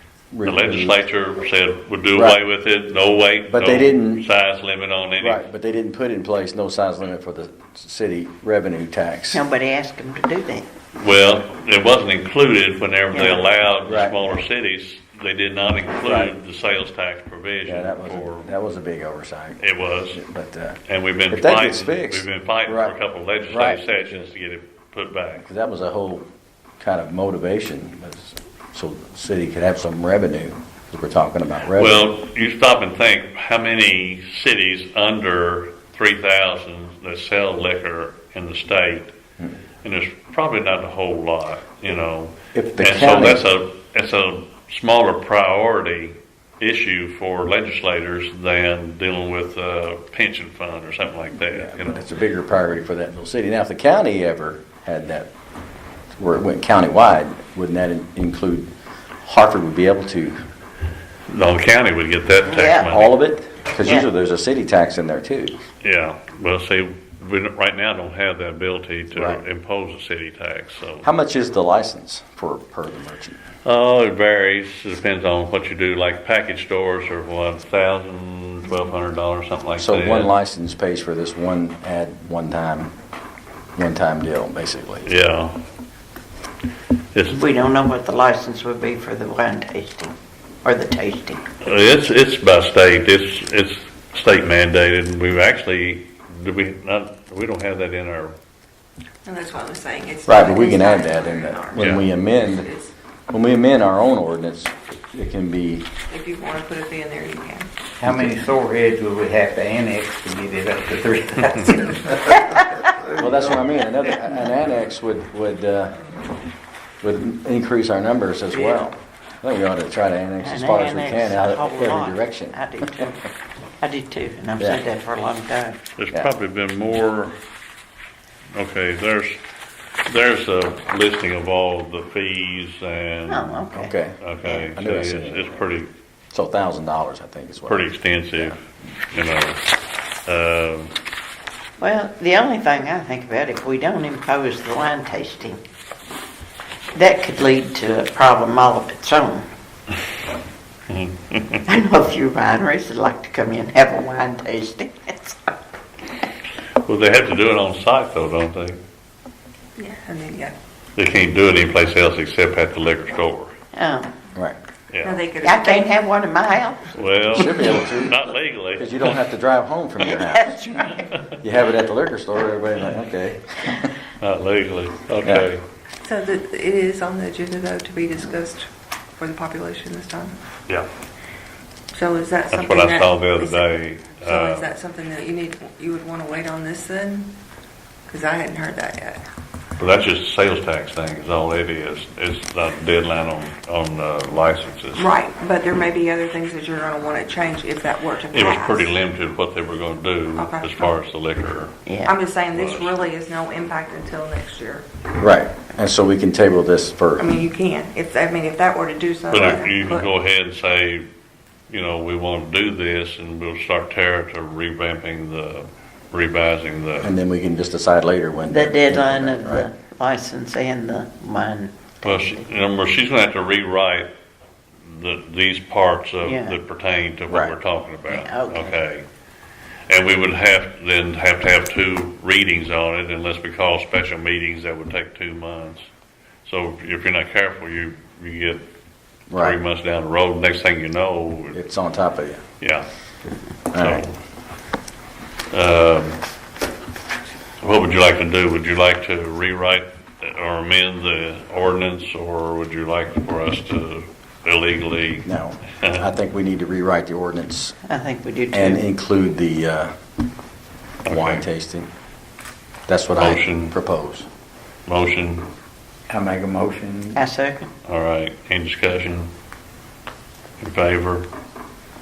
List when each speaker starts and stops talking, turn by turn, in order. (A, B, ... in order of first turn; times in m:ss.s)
0:00.3-0:01.0 A
0:00.4-0:05.4 B
0:02.1-0:02.4 A
0:03.5-0:04.2 A
0:05.2-0:09.4 A
0:09.3-0:10.6 C
0:11.0-0:18.5 B
0:13.1-0:13.5 C
0:13.8-0:14.4 A
0:16.0-0:16.3 A
0:17.6-0:20.8 A
0:19.6-0:20.2 B
0:20.9-0:25.4 B
0:21.3-0:22.9 A
0:23.5-0:24.3 A
0:25.4-0:26.2 A
0:26.8-0:32.1 A
0:31.7-0:39.1 B
0:39.8-0:52.1 B
0:42.5-0:43.4 A
0:51.4-0:55.3 A
0:56.2-0:58.7 A
0:59.2-1:00.4 A
1:01.3-1:03.1 B
1:02.4-1:02.9 C
1:02.9-1:05.6 A
1:05.8-1:11.1 B
1:09.1-1:09.4 A
1:11.0-1:13.4 A
1:13.6-1:20.3 B
1:19.8-1:22.9 A
1:23.8-1:25.1 A
1:25.0-1:25.6 B
1:27.1-1:27.4 B
1:27.3-1:31.4 C
1:31.6-1:38.3 B
1:39.2-1:42.9 D
1:40.2-1:42.7 A
1:41.7-1:42.0 B
1:43.3-1:45.9 A
1:46.1-1:47.7 D
1:48.0-1:52.3 E
1:48.0-1:48.4 A
1:53.0-1:55.9 A
1:57.0-2:03.0 A
1:58.5-1:58.8 C
2:00.4-2:03.2 C
2:03.8-2:05.8 C
2:06.0-2:07.4 B
2:08.5-2:09.4 B
2:10.1-2:13.6 B
2:13.3-2:14.7 C
2:13.7-2:14.2 A
2:14.2-2:15.9 B
2:14.7-2:15.6 A
2:16.3-2:18.6 A
2:17.6-2:18.6 B
2:19.1-2:19.6 B
2:20.2-2:20.9 B
2:21.8-2:25.6 C
2:26.9-2:29.5 C
2:30.9-2:31.6 B
2:31.6-2:35.4 C
2:36.8-2:38.8 B
2:39.8-2:40.6 D
2:41.0-2:43.5 B
2:43.7-2:44.1 C
2:44.9-2:45.2 B
2:45.0-2:45.9 D
2:45.4-2:46.9 C
2:46.9-2:49.1 B
2:47.3-2:48.2 A
2:48.8-2:50.5 A
2:50.0-2:51.1 C
2:51.4-2:53.9 A
2:54.2-2:55.6 B
2:56.0-3:00.3 D
3:01.9-3:03.6 D
3:02.5-3:04.7 B
3:04.2-3:07.3 D
3:08.1-3:09.2 D
3:09.8-3:15.1 B
3:14.9-3:19.0 D
3:18.3-3:21.8 B
3:20.3-3:21.0 D
3:21.8-3:22.2 C
3:22.0-3:24.8 D
3:22.5-3:23.0 B
3:25.2-3:27.3 A
3:27.2-3:30.1 D
3:29.3-3:31.0 B
3:31.7-3:37.1 B
3:37.0-3:39.7 A
3:38.5-3:42.5 C
3:42.0-3:44.1 B
3:44.8-3:49.0 B
3:46.2-3:46.6 C
3:47.3-3:47.5 A
3:48.0-3:48.8 C
3:49.9-3:55.9 B
3:56.4-3:58.6 B
3:59.3-3:59.6 A
3:59.4-4:01.6 B
4:01.5-4:02.4 A
4:02.6-4:02.8 B
4:03.7-4:04.0 A
4:03.8-4:04.1 B
4:05.5-4:06.2 B
4:07.6-4:15.3 B
4:15.2-4:17.8 A
4:17.9-4:18.8 C
4:18.5-4:19.9 A
4:21.0-4:21.4 B
4:21.0-4:21.9 A
4:22.9-4:24.2 A
4:23.2-4:23.7 B
4:24.9-4:25.5 B
4:26.1-4:27.2 E
4:27.1-4:27.7 C
4:27.8-4:29.3 B
4:30.6-4:31.3 B